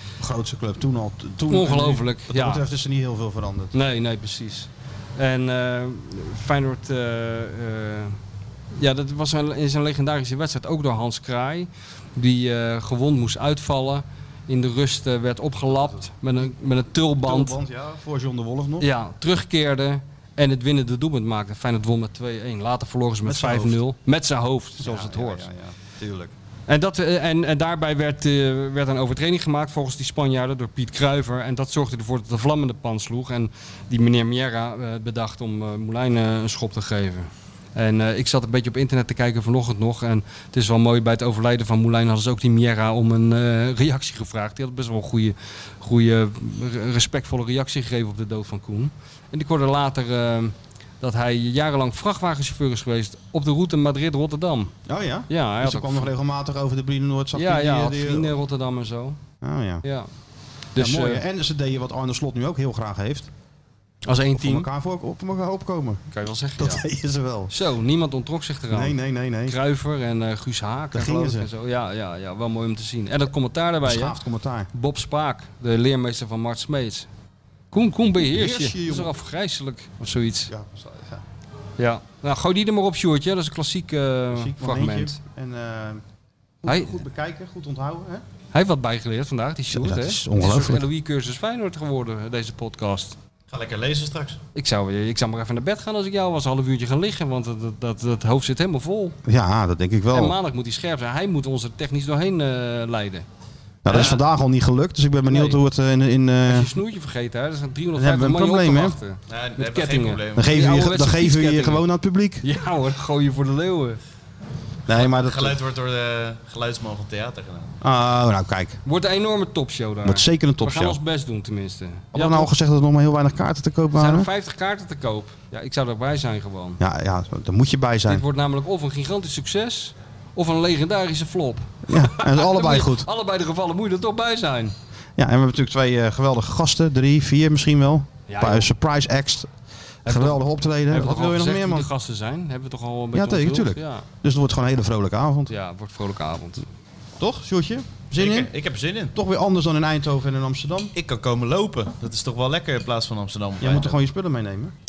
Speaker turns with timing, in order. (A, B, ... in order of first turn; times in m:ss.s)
0:00.2-0:03.8 A
0:01.5-0:02.6 B
0:03.7-0:08.2 B
0:08.8-0:17.6 B
0:17.0-0:18.9 A
0:18.8-0:25.5 B
0:23.2-0:23.8 A
0:24.8-0:26.3 A
0:26.7-0:54.7 B
0:54.8-0:58.3 A
0:55.3-0:56.1 B
0:57.3-0:59.2 B
0:59.4-0:59.8 A
0:59.8-1:00.1 B
1:00.7-1:01.2 B
1:00.7-1:03.3 A
1:04.0-1:04.7 B
1:04.3-1:06.0 A
1:06.1-1:06.8 B
1:06.6-1:07.5 A
1:07.5-1:14.2 B
1:08.7-1:09.6 A
1:10.9-1:11.5 A
1:13.8-1:14.7 A
1:14.7-1:17.1 B
1:17.7-1:20.5 B
1:18.2-1:19.1 A
1:20.5-1:21.2 A
1:21.8-1:25.2 B
1:24.3-1:26.0 A
1:26.6-1:28.2 A
1:26.6-1:27.0 B
1:28.5-1:33.2 B
1:29.7-1:30.8 A
1:33.5-1:34.4 C
1:34.5-1:39.2 B
1:39.2-1:40.4 A
1:40.1-1:43.2 B
1:43.8-1:46.7 A
1:43.9-1:44.2 C
1:43.9-1:44.2 B
1:45.3-1:45.6 B
1:46.5-1:51.8 B
1:47.9-1:49.0 A
1:49.3-1:50.5 C
1:50.3-1:52.4 A
1:52.4-1:54.0 B
1:54.9-1:55.6 A
1:54.9-1:57.7 C
1:57.8-1:58.8 A
1:58.8-2:02.5 B
2:00.0-2:01.0 A
2:02.1-2:04.3 A
2:03.9-2:06.8 B
2:06.8-2:08.2 A
2:08.1-2:14.7 B
2:11.9-2:13.1 A
2:15.2-2:19.5 A
2:18.3-2:18.7 B
2:20.0-2:21.9 A
2:20.0-2:24.0 B
2:23.1-2:25.5 A
2:25.5-2:26.6 B
2:27.2-2:28.5 A
2:28.1-2:29.1 C
2:29.1-2:30.9 A
2:30.9-2:34.0 C
2:33.6-2:34.7 A